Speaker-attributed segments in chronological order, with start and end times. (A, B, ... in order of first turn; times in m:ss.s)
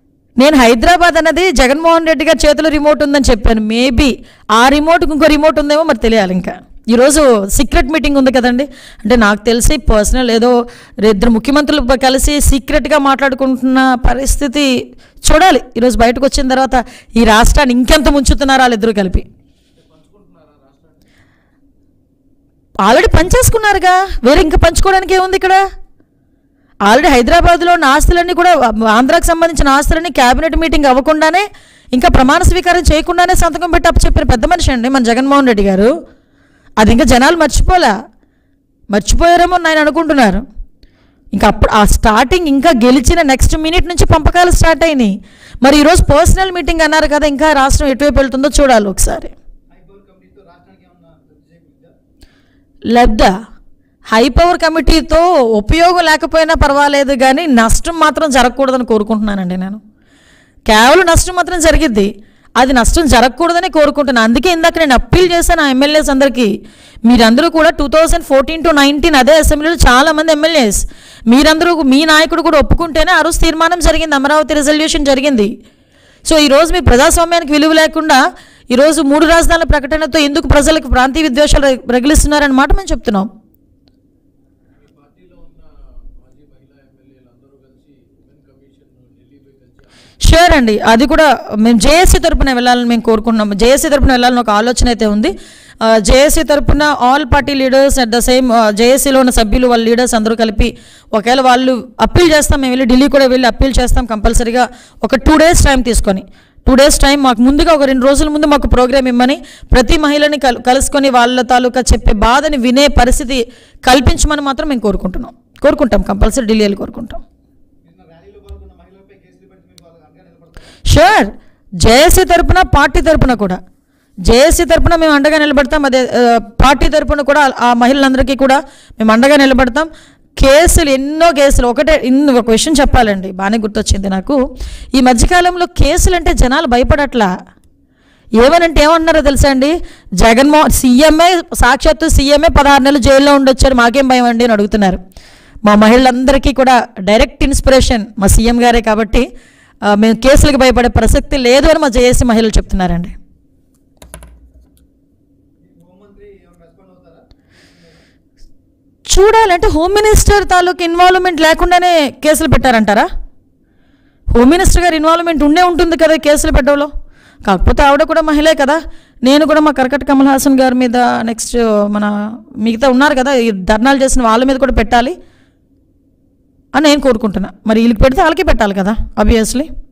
0:00.4-0:14.7 A
0:15.2-0:19.2 A
0:19.8-0:21.0 B
0:22.8-0:25.6 A
0:26.9-0:35.9 A
0:36.8-0:37.9 A
0:38.9-0:40.4 A
0:41.3-0:49.3 A
0:49.7-0:51.9 C
0:52.9-0:53.3 A
0:54.1-0:59.8 A
1:00.7-1:06.5 A
1:07.0-1:15.5 A
1:16.2-1:23.3 A
1:24.7-1:29.9 B
1:30.2-1:35.3 A
1:35.8-1:57.2 A
1:57.8-2:00.7 C
2:00.9-2:03.6 A
2:04.2-2:14.4 A
2:14.9-2:17.3 A
2:18.4-2:25.0 A
2:25.6-2:29.3 A
2:29.8-2:33.1 A
2:35.6-2:38.0 C
2:39.1-2:43.1 A
2:44.3-2:46.9 A
2:47.4-2:55.2 A
2:56.7-2:59.7 A